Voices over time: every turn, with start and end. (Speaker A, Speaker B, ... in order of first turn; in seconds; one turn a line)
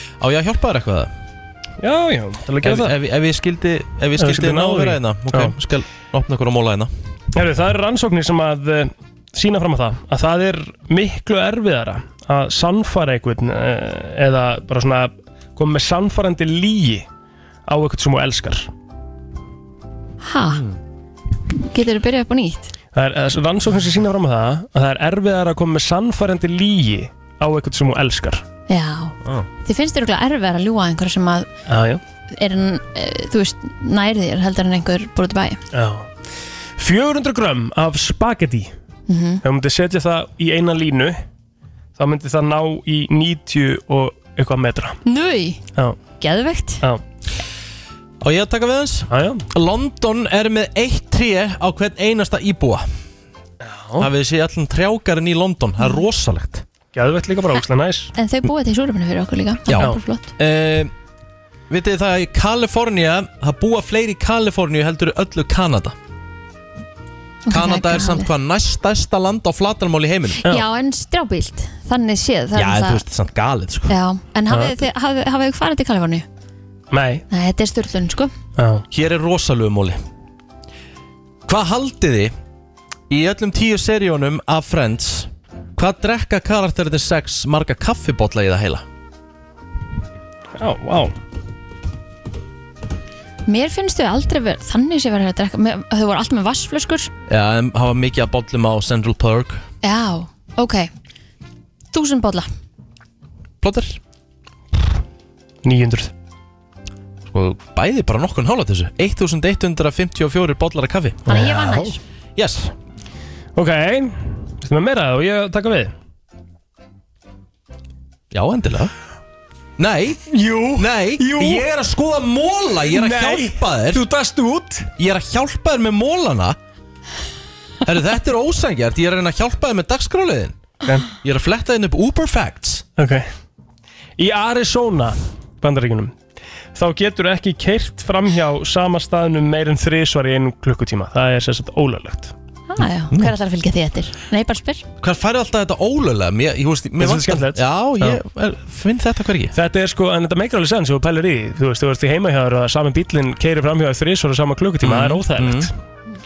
Speaker A: 0.2-1.1
Speaker B: 1.8-2.9
Speaker A: 2.6-6.9
Speaker B: 4.2-5.5
Speaker B: 7.3-17.1
Speaker B: 17.7-18.7
Speaker C: 20.2-20.6
Speaker C: 21.6-22.7
Speaker B: 22.9-28.4
Speaker C: 28.7-31.5
Speaker B: 31.7-32.0
Speaker C: 32.3-35.6
Speaker B: 35.7-36.1
Speaker B: 36.8-38.7
Speaker C: 39.1-39.4
Speaker B: 39.4-41.2
Speaker B: 42.0-45.0
Speaker C: 45.0-45.6
Speaker C: 46.2-46.8
Speaker A: 48.2-52.9
Speaker B: 49.1-49.4
Speaker B: 53.6-54.1
Speaker A: 54.0-56.6
Speaker B: 56.9-58.1
Speaker C: 58.1-60.3
Speaker A: 59.7-60.9
Speaker B: 59.7-60.0
Speaker A: 61.7-65.9
Speaker C: 67.5-68.3
Speaker A: 67.5-70.4
Speaker C: 70.4-73.0
Speaker A: 72.5-73.9
Speaker C: 73.9-76.2
Speaker B: 74.5-74.7
Speaker B: 76.9-77.2
Speaker C: 77.3-78.3
Speaker B: 78.6-78.8
Speaker A: 78.9-80.0
Speaker A: 81.5-82.3
Speaker A: 83.1-88.8
Speaker B: 90.6-91.1
Speaker C: 93.5-97.1
Speaker A: 97.3-99.6
Speaker C: 99.8-100.9
Speaker C: 101.9-102.5
Speaker A: 103.6-104.0
Speaker B: 105.6-106.1
Speaker A: 107.3-111.2
Speaker C: 111.3-112.0
Speaker B: 111.3-111.9
Speaker A: 112.3-112.7
Speaker B: 113.5-115.9
Speaker A: 118.3-118.9
Speaker A: 119.8-124.0
Speaker B: 120.3-121.7
Speaker B: 122.9-124.9
Speaker A: 125.0-126.6
Speaker A: 127.8-130.6
Speaker A: 131.2-132.8
Speaker B: 133.0-133.3
Speaker B: 134.2-136.1
Speaker B: 136.8-142.3
Speaker C: 142.7-144.8
Speaker A: 145.0-149.5
Speaker B: 147.0-148.2
Speaker B: 149.5-155.7
Speaker A: 154.8-155.7